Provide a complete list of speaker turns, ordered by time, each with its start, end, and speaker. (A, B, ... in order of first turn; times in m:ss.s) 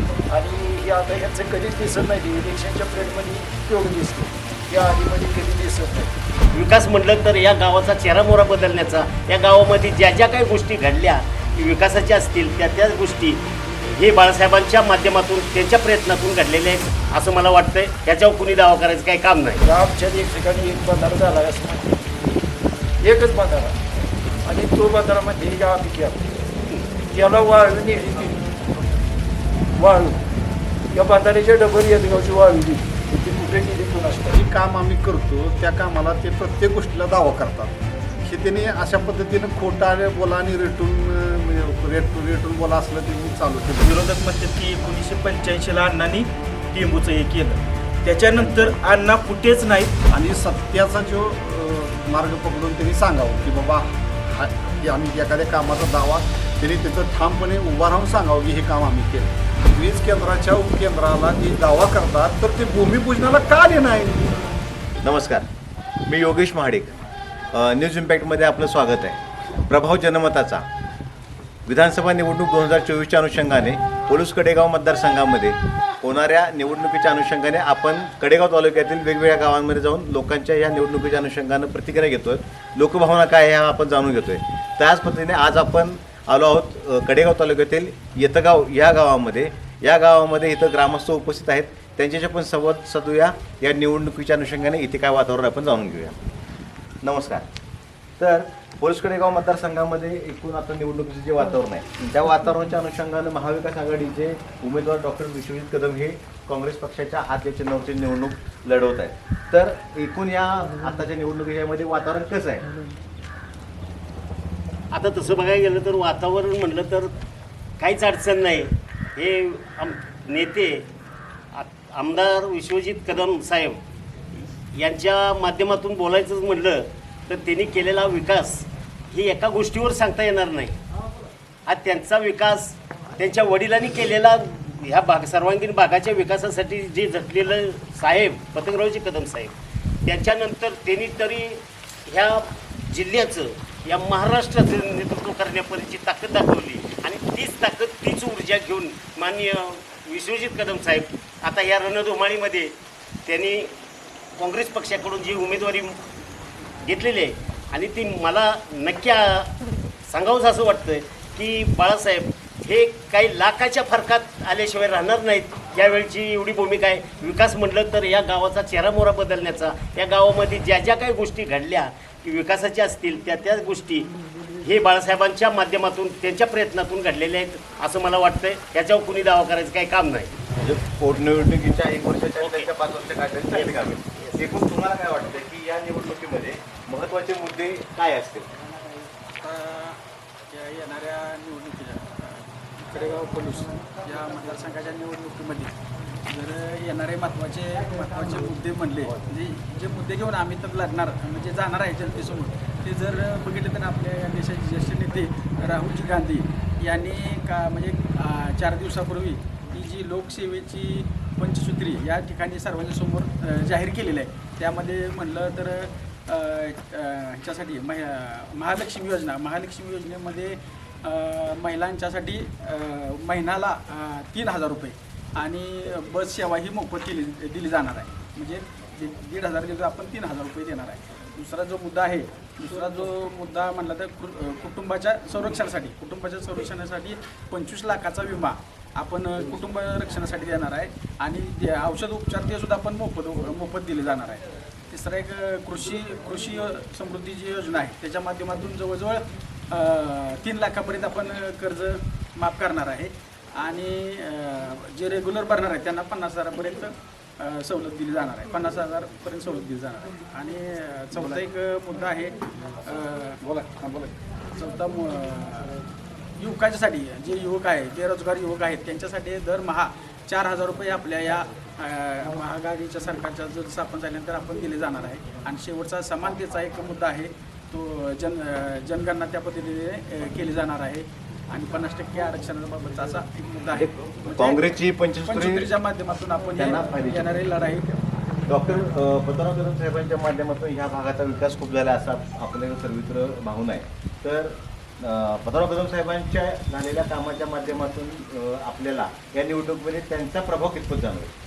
0:00.3-0:06.1 A
0:06.5-0:19.6 B
0:19.6-0:22.1 A
0:23.0-0:23.8 A
0:24.5-0:26.3 A
0:27.1-0:28.5 A
0:29.8-0:30.2 A
0:30.9-0:34.4 A
0:34.3-0:44.0 C
0:43.8-0:50.0 D
0:48.3-0:48.8 C
0:50.1-1:04.5 C
1:05.0-1:05.5 E
1:06.1-1:07.0 E
1:07.5-1:10.7 E
1:11.7-1:36.2 E
1:37.0-1:37.5 E
1:38.2-1:52.7 E
1:54.9-1:57.1 B
1:57.8-2:00.8 B
2:01.5-2:03.8 B
2:04.7-2:10.8 B
2:11.7-2:19.5 B
2:20.1-2:32.7 B
2:33.3-2:33.7 B
2:34.4-2:36.0 B
2:36.8-2:39.5 B
2:40.1-2:54.1 B
2:54.6-3:00.3 B
3:00.6-3:08.5 E
3:02.4-3:02.7 B
3:03.5-3:04.4 B
3:09.4-3:15.7 F
3:16.3-4:25.7 F
4:26.4-4:44.7 F
4:43.7-4:45.7 E
4:45.2-4:48.0 F
4:46.6-4:47.4 E
4:48.5-5:01.3 E